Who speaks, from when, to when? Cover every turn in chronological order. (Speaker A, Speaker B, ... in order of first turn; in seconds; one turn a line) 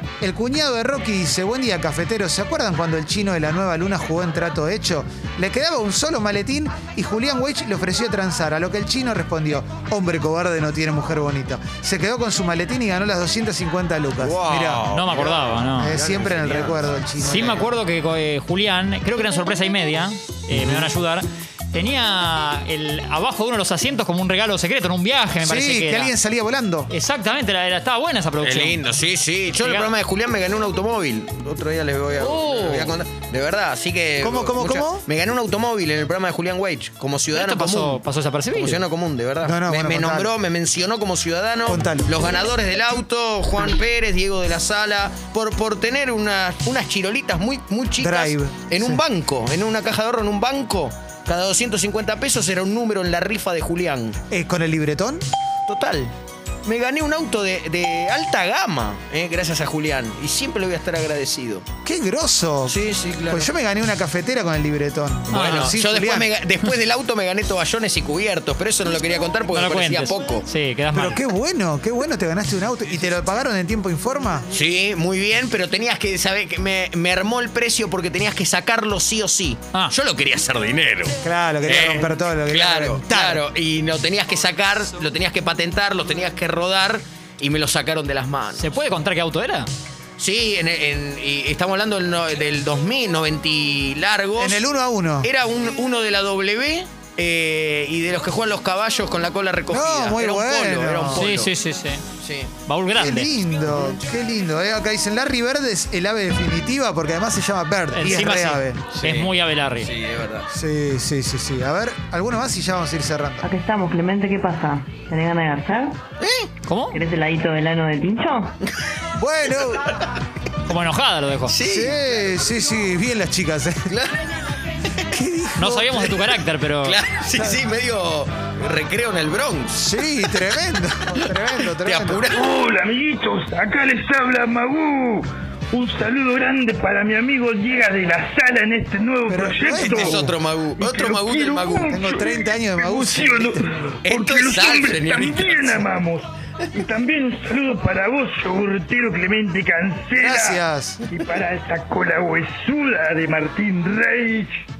Speaker A: 0.2-14.8
Speaker B: 14.2-16.9
Speaker C: 14.9-16.0
Speaker A: 15.8-17.7
Speaker C: 17.2-26.1
Speaker A: 25.4-26.9
Speaker C: 26.9-28.8
Speaker B: 28.4-38.0
Speaker C: 29.6-29.9
Speaker C: 32.2-33.0
Speaker A: 34.2-35.0
Speaker C: 37.3-38.8
Speaker B: 38.5-54.2
Speaker A: 39.4-40.3
Speaker A: 41.6-42.1
Speaker A: 48.0-49.0
Speaker A: 54.3-55.2
Speaker B: 55.7-56.1
Speaker B: 56.6-61.6
Speaker A: 61.8-62.8
Speaker B: 62.6-63.5
Speaker A: 63.3-66.3
Speaker B: 65.3-70.5
Speaker C: 65.3-65.7
Speaker C: 69.5-71.2
Speaker A: 70.9-74.5
Speaker B: 74.5-88.6
Speaker A: 81.2-83.4
Speaker C: 88.5-89.7
Speaker B: 90.2-94.7
Speaker A: 94.4-95.3
Speaker B: 95.2-101.5
Speaker A: 99.7-101.2
Speaker C: 101.1-102.0
Speaker B: 102.2-102.5
Speaker C: 102.7-103.3
Speaker A: 103.0-108.8
Speaker C: 107.9-109.9
Speaker B: 109.0-110.5
Speaker A: 110.5-113.5
Speaker D: 113.4-116.0
Speaker B: 116.2-116.5
Speaker C: 116.7-117.0
Speaker D: 116.9-118.5
Speaker A: 119.2-119.8
Speaker C: 120.7-121.6
Speaker B: 121.5-122.0
Speaker A: 121.7-123.8
Speaker B: 123.9-124.2
Speaker A: 125.1-125.9
Speaker C: 125.6-127.0
Speaker B: 126.8-129.8
Speaker A: 127.3-127.6
Speaker A: 129.7-132.3
Speaker B: 131.8-132.6
Speaker E: 132.3-154.5
Speaker A: 139.3-140.3
Speaker B: 139.7-141.9
Speaker A: 141.9-143.6
Speaker B: 144.0-145.8
Speaker A: 150.1-151.0